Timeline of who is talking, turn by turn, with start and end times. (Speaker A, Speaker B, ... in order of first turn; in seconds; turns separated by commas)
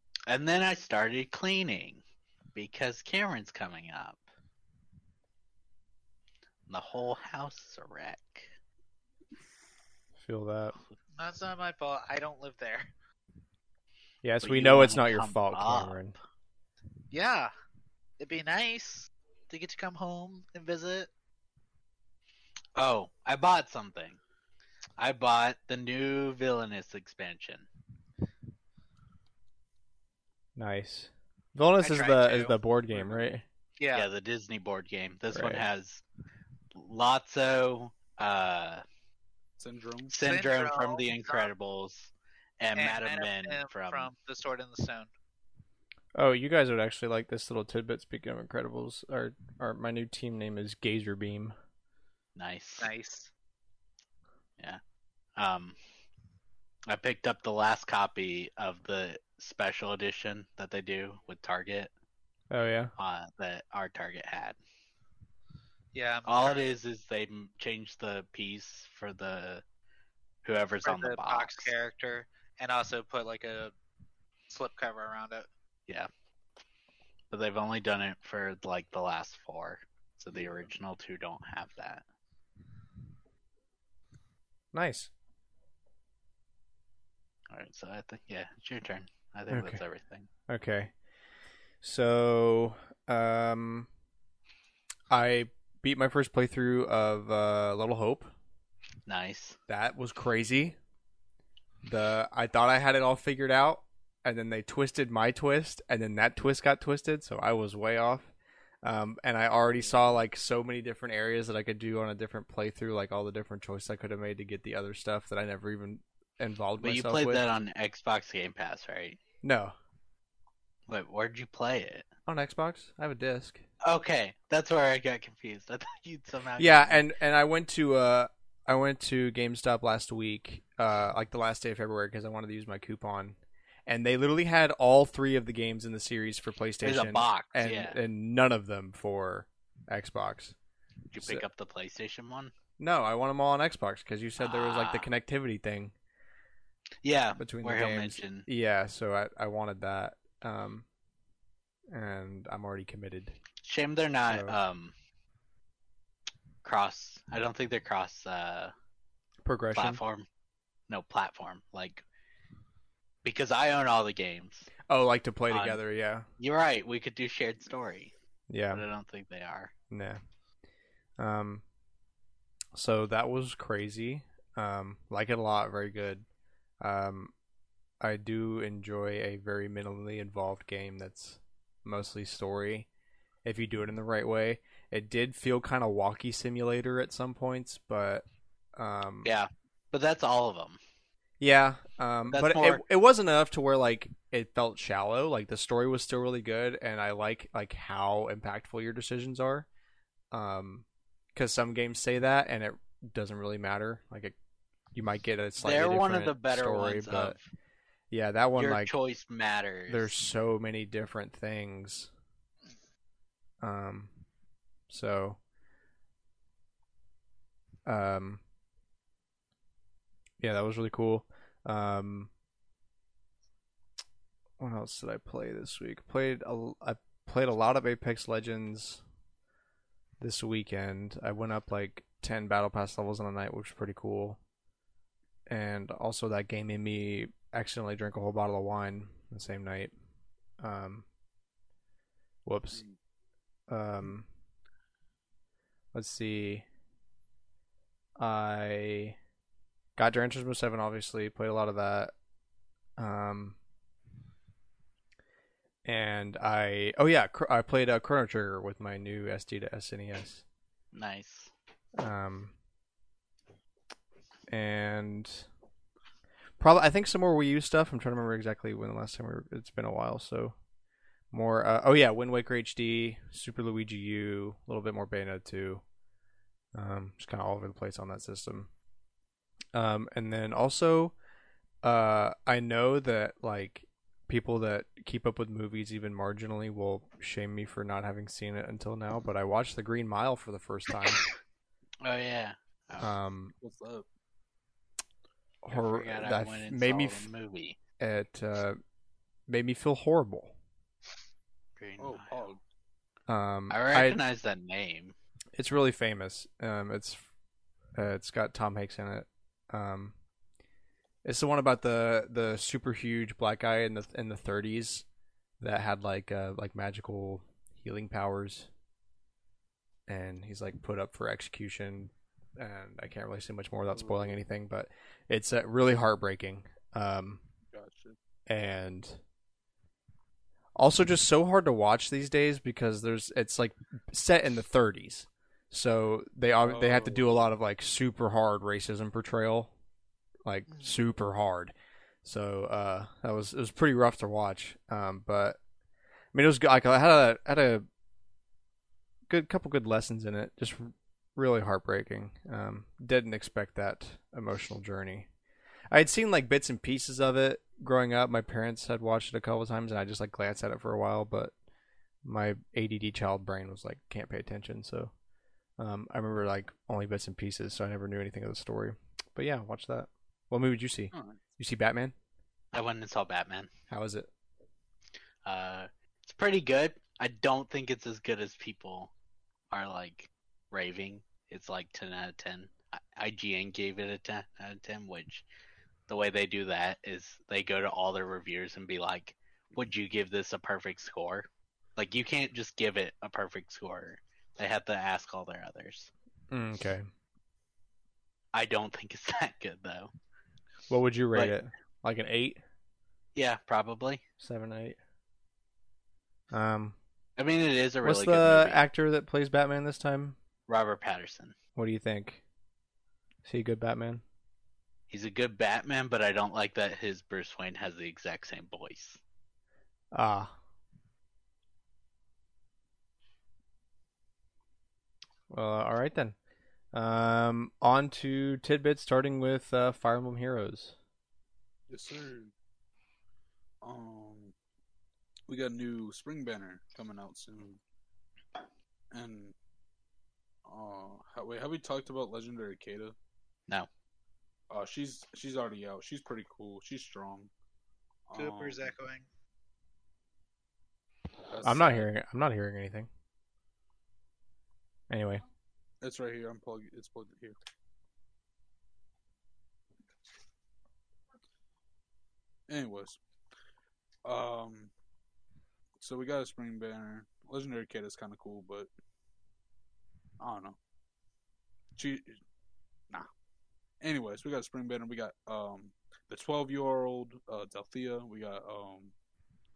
Speaker A: 0.3-2.0, Speaker A: 2.5-4.2, Speaker A: 6.7-8.5, Speaker B: 10.2-10.7, Speaker C: 11.2-12.9, Speaker B: 14.2-16.1, Speaker A: 14.4-16.0, Speaker C: 17.1-17.5, Speaker C: 18.2-21.1, Speaker A: 22.8-24.2, Speaker A: 25.0-27.7, Speaker B: 30.6-33.4, Speaker C: 31.8-32.5, Speaker D: 32.9-33.3, Speaker C: 33.8-34.1, Speaker A: 33.9-36.0, Speaker B: 35.3-35.6, Speaker A: 36.8-38.8, Speaker D: 39.6-40.1, Speaker A: 40.1-44.1, Speaker C: 40.2-41.5, Speaker C: 42.7-45.1, Speaker B: 46.1-51.5, Speaker A: 52.4-52.9, Speaker C: 52.8-53.3, Speaker A: 55.4-55.8, Speaker A: 56.9-61.9, Speaker B: 62.5-62.9, Speaker A: 63.0-64.6, Speaker C: 65.9-66.7, Speaker A: 66.2-69.6, Speaker A: 70.4-71.7, Speaker C: 70.8-73.7, Speaker C: 74.5-75.5, Speaker A: 77.3-82.0, Speaker B: 84.7-85.1, Speaker A: 87.5-90.3, Speaker B: 89.5-89.8, Speaker B: 90.5-90.9, Speaker B: 91.8-93.9, Speaker B: 95.1-98.3, Speaker A: 99.1-99.6, Speaker B: 99.7-100.8, Speaker B: 101.8-108.3, Speaker B: 108.8-117.5, Speaker A: 116.8-119.2, Speaker B: 119.4-119.7, Speaker A: 120.9-122.0, Speaker B: 122.3-123.6, Speaker A: 123.8-127.0, Speaker B: 126.6-140.6, Speaker A: 136.8-138.0, Speaker A: 141.1-142.5, Speaker B: 142.8-145.9, Speaker A: 144.4-145.1, Speaker A: 147.0-148.4, Speaker B: 147.4-150.8, Speaker B: 151.9-153.4, Speaker A: 153.6-154.9, Speaker B: 154.3-154.6, Speaker A: 156.6-158.7, Speaker B: 159.4-160.0, Speaker A: 159.7-160.2, Speaker A: 160.9-162.0, Speaker A: 163.2-164.7, Speaker B: 164.9-166.2, Speaker A: 165.5-165.8, Speaker A: 166.4-168.1, Speaker B: 168.5-168.8, Speaker A: 168.7-169.7, Speaker B: 169.9-170.2, Speaker B: 171.2-171.6, Speaker B: 172.7-176.2, Speaker B: 176.8-177.3, Speaker B: 178.0-182.9, Speaker B: 183.4-189.3, Speaker A: 189.2-190.8, Speaker B: 191.4-199.7, Speaker A: 192.3-192.8, Speaker B: 200.3-204.3, Speaker B: 204.9-207.4, Speaker A: 205.6-207.4, Speaker B: 208.1-208.9, Speaker A: 208.6-210.1, Speaker B: 209.9-212.1, Speaker B: 213.6-214.1, Speaker B: 214.9-215.4, Speaker B: 217.8-218.4, Speaker B: 220.4-222.3, Speaker B: 224.6-229.0, Speaker B: 230.2-234.4, Speaker B: 235.5-239.9, Speaker B: 240.6-241.0, Speaker B: 242.4-242.8, Speaker B: 243.7-244.3, Speaker B: 245.9-246.7, Speaker B: 248.2-249.2, Speaker B: 249.9-252.1, Speaker B: 253.0-253.6, Speaker B: 255.8-260.4, Speaker A: 260.9-261.5, Speaker B: 262.0-262.5, Speaker B: 264.5-265.5, Speaker B: 266.6-270.6, Speaker B: 271.3-275.8, Speaker B: 276.7-278.7, Speaker B: 279.7-281.1, Speaker B: 281.8-291.2, Speaker A: 292.0-293.1, Speaker B: 293.0-293.5, Speaker D: 293.6-294.1, Speaker B: 295.6-297.3, Speaker A: 295.7-297.8, Speaker B: 298.0-298.8, Speaker B: 299.5-300.5, Speaker A: 301.8-302.4, Speaker D: 302.0-302.6, Speaker B: 303.3-304.2, Speaker A: 303.7-305.1, Speaker B: 305.5-307.3, Speaker B: 307.9-310.1, Speaker B: 311.2-315.0, Speaker B: 315.6-318.7, Speaker B: 320.1-327.4, Speaker D: 323.9-324.4, Speaker D: 327.7-328.2, Speaker B: 328.5-329.2, Speaker B: 330.8-339.7, Speaker D: 336.6-337.4, Speaker B: 340.4-345.6, Speaker B: 346.3-347.9, Speaker B: 349.3-355.3, Speaker B: 355.9-361.5, Speaker B: 362.2-365.1, Speaker B: 365.8-372.1, Speaker D: 371.1-371.4, Speaker A: 372.7-373.7, Speaker B: 373.9-374.3, Speaker A: 375.4-379.1, Speaker A: 379.7-385.4, Speaker A: 386.1-396.1, Speaker B: 396.5-397.1, Speaker A: 398.5-400.1, Speaker B: 400.9-402.6, Speaker A: 403.3-404.2, Speaker B: 404.4-405.0, Speaker B: 406.5-407.0, Speaker A: 407.4-408.8, Speaker B: 408.0-410.4, Speaker A: 410.7-411.6, Speaker B: 411.8-412.4, Speaker B: 413.4-414.2, Speaker A: 415.1-419.2, Speaker B: 420.1-420.5, Speaker B: 425.5-426.4, Speaker B: 426.9-430.9, Speaker D: 431.9-432.5, Speaker D: 433.8-434.5, Speaker D: 435.5-437.8, Speaker D: 439.1-439.5, Speaker D: 440.6-443.1, Speaker D: 444.7-447.5, Speaker D: 448.3-448.9, Speaker C: 448.4-449.2, Speaker D: 451.5-452.1, Speaker B: 451.6-453.1, Speaker B: 455.1-455.4, Speaker D: 456.0-457.6, Speaker D: 462.7-463.2, Speaker D: 464.2-464.9, Speaker D: 466.0-468.9, Speaker D: 470.4-470.8, Speaker D: 471.9-472.4, Speaker D: 474.0-479.1